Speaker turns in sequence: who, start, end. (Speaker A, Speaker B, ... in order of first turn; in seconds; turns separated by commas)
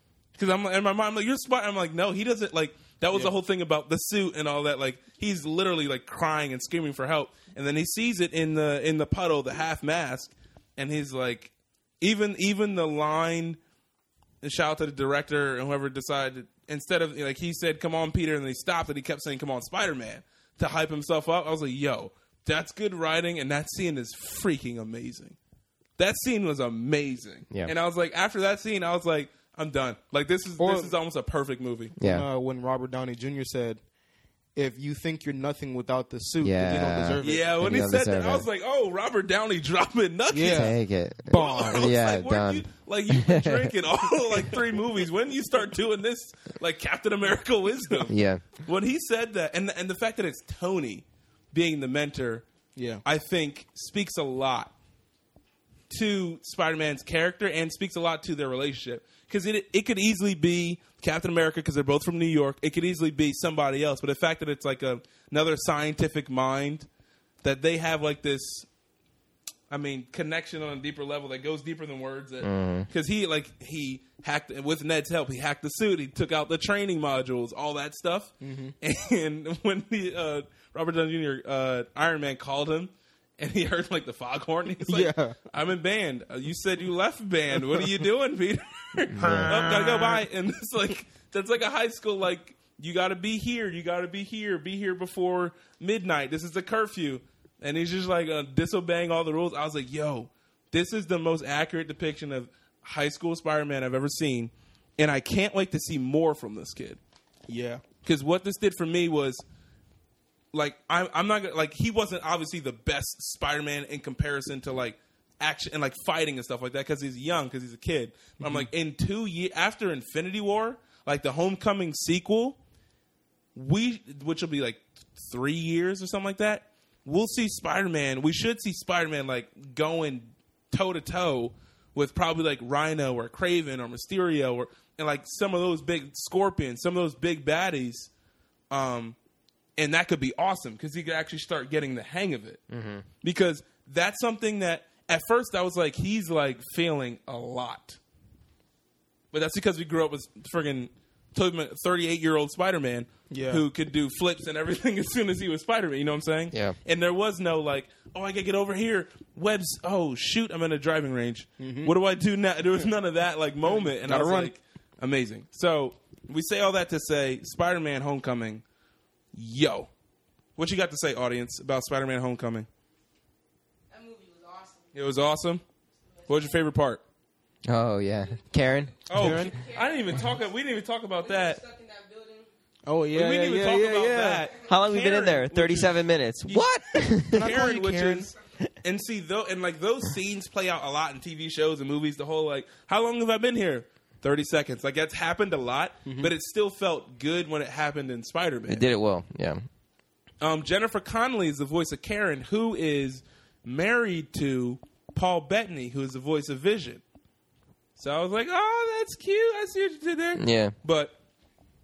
Speaker A: 0.3-13.6, Speaker A: 14.4-25.4, Speaker A: 26.0-31.9, Speaker B: 30.6-30.9, Speaker C: 32.0-32.2, Speaker B: 32.0-33.8, Speaker B: 34.5-37.5, Speaker C: 36.4-38.5, Speaker A: 37.2-40.8, Speaker B: 40.3-41.9, Speaker C: 40.4-43.7, Speaker A: 41.3-52.4, Speaker C: 48.1-48.4, Speaker B: 52.8-53.0, Speaker A: 53.0-54.7, Speaker A: 55.9-66.9, Speaker A: 67.4-68.7, Speaker A: 69.7-107.0, Speaker C: 72.4-72.9, Speaker B: 78.4-78.7, Speaker B: 84.8-85.4, Speaker C: 89.1-89.6, Speaker B: 89.2-90.2, Speaker B: 107.5-107.8, Speaker A: 108.0-109.4, Speaker A: 110.5-122.6, Speaker B: 118.4-118.7, Speaker A: 123.5-138.1, Speaker A: 138.7-139.2, Speaker A: 139.8-142.6, Speaker C: 142.7-143.0, Speaker A: 143.2-148.0, Speaker A: 149.3-168.6, Speaker B: 153.3-153.6, Speaker C: 156.5-156.8, Speaker B: 161.6-161.9, Speaker B: 163.7-164.5, Speaker A: 169.3-169.9, Speaker A: 170.6-172.7, Speaker D: 173.9-174.9, Speaker A: 174.9-175.6, Speaker A: 176.3-177.0, Speaker C: 177.6-179.4, Speaker A: 179.1-181.6, Speaker B: 179.1-179.6, Speaker D: 179.4-180.5, Speaker D: 181.2-182.5, Speaker B: 182.8-184.5, Speaker A: 183.1-198.9, Speaker C: 184.6-187.5, Speaker B: 187.3-188.3, Speaker B: 196.0-196.3, Speaker C: 198.7-199.6, Speaker A: 200.4-207.0, Speaker A: 207.9-211.1, Speaker C: 210.4-210.7